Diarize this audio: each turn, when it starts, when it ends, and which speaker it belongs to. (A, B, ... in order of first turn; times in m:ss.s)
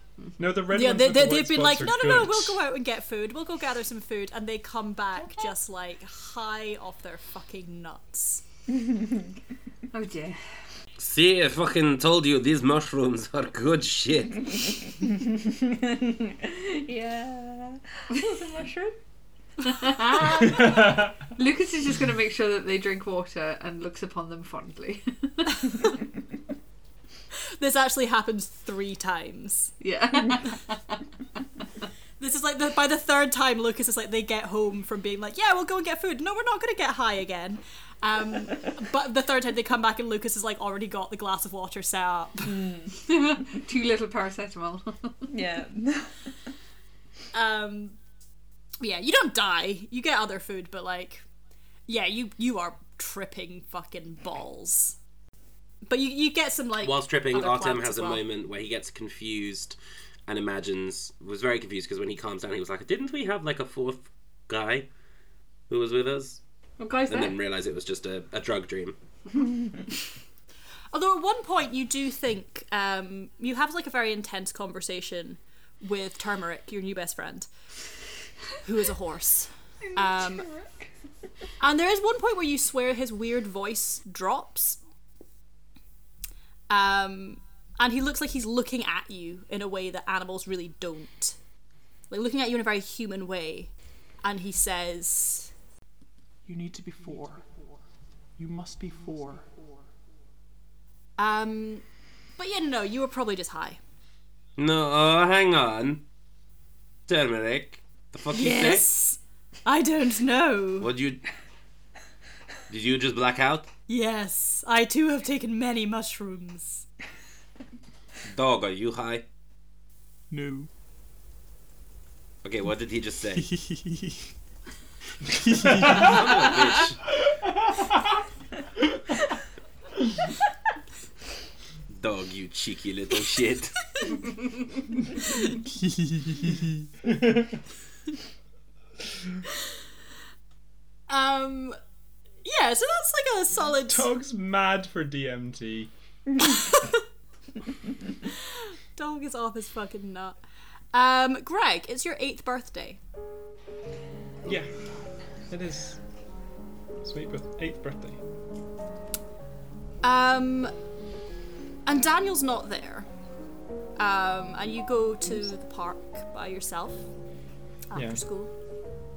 0:00.4-0:02.6 A
0:00.7-0:08.4 B
0:08.7-0:09.3 C
0:09.9-0:10.4 D
0:11.0-0:14.9 E
0:15.0-0:19.0 C
0:19.6-0:25.9 D
0:20.3-0:21.2 A
0:27.4-0:29.7 B
0:29.8-0:31.0 D
0:32.2-0:42.6 B
0:42.4-0:43.0 C
0:43.0-0:45.3 D
0:45.3-0:46.3 C
0:47.3-0:48.0 B
0:48.8-0:51.2 B
0:51.9-0:55.0 B
0:55.8-0:58.2 B
0:56.8-1:04.9 E
1:05.7-1:06.4 E
1:06.8-1:07.3 D
1:07.1-1:09.0 E
1:10.9-1:17.5 B
1:18.6-1:20.5 B
1:21.6-1:24.8 B
1:26.7-1:31.4 B
1:32.1-1:33.7 B
1:34.2-1:35.5 B
1:36.4-1:37.5 F
1:38.4-1:39.6 F
1:41.2-1:41.8 B
1:42.4-1:43.8 B
1:44.6-1:46.0 E
1:47.1-1:48.8 E
1:48.3-1:50.9 B
1:50.8-1:51.2 E
1:52.7-1:53.7 E
1:53.9-1:56.8 B
1:58.3-1:59.2 E
2:00.3-2:00.7 F
2:02.4-2:03.5 E
2:03.3-2:04.2 F
2:05.4-2:06.4 F
2:05.8-2:06.1 A
2:05.8-2:07.0 E
2:11.9-2:13.8 E
2:15.6-2:16.9 F
2:17.0-2:17.6 A
2:21.1-2:21.8 B
2:22.4-2:24.1 B
2:23.7-2:25.9 A
2:26.4-2:27.0 B
2:28.2-2:30.4 B
2:30.9-2:33.0 B
2:34.4-2:34.7 A
2:35.5-2:36.0 A
2:37.0-2:38.2 A
2:40.0-2:40.7 B
2:41.8-2:43.1 B
2:44.0-2:47.0 B
2:47.9-2:48.5 B
2:47.9-2:48.2 A